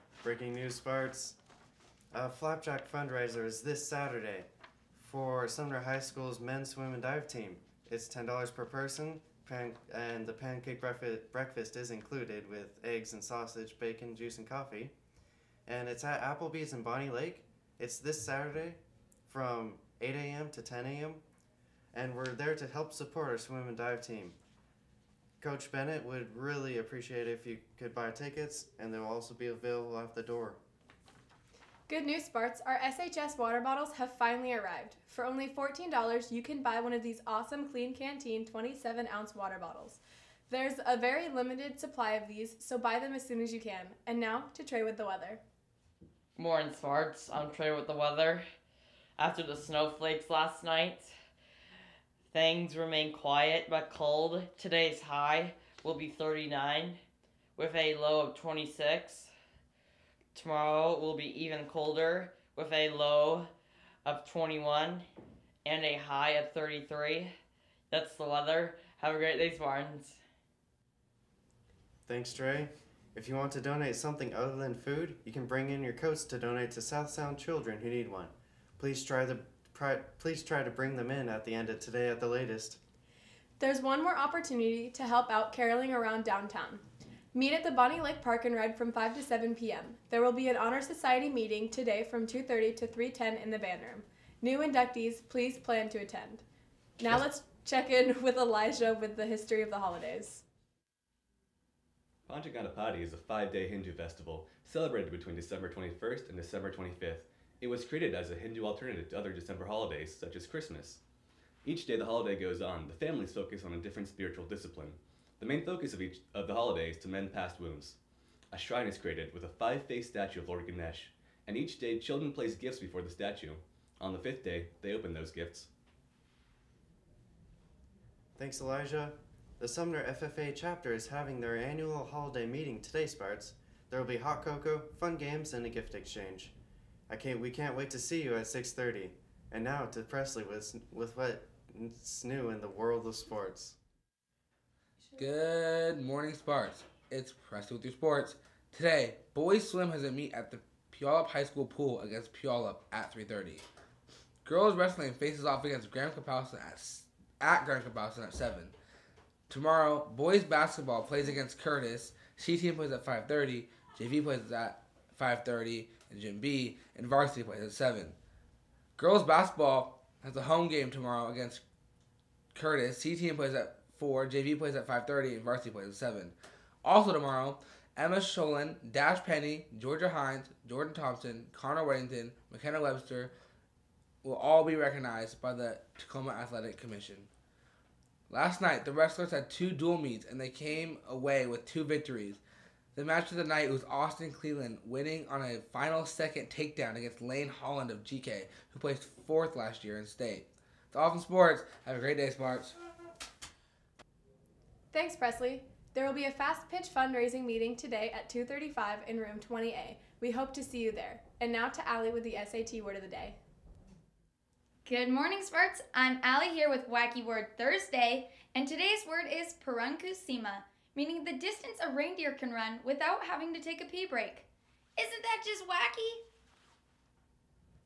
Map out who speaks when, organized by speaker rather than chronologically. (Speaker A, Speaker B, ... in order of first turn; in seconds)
Speaker A: 0.2-1.4, 2.1-14.9, 15.7-21.2, 21.9-24.4, 25.4-30.6, 72.1-82.8, 128.4-136.5, 137.1-143.8
Speaker B: 31.9-45.4, 83.6-96.4, 97.0-100.4, 204.9-213.4
Speaker C: 46.4-48.4, 49.2-51.1, 52.3-57.0, 57.6-59.3, 60.4-63.5, 64.0-65.0, 65.7-67.3, 67.9-70.2
Speaker D: 102.3-111.0, 111.6-118.0, 118.5-125.7
Speaker E: 145.2-153.6, 154.4-158.7, 159.5-168.2, 169.0-171.6, 172.6-183.3, 184.2-187.3, 188.3-192.4, 192.9-202.8
Speaker F: 214.8-226.2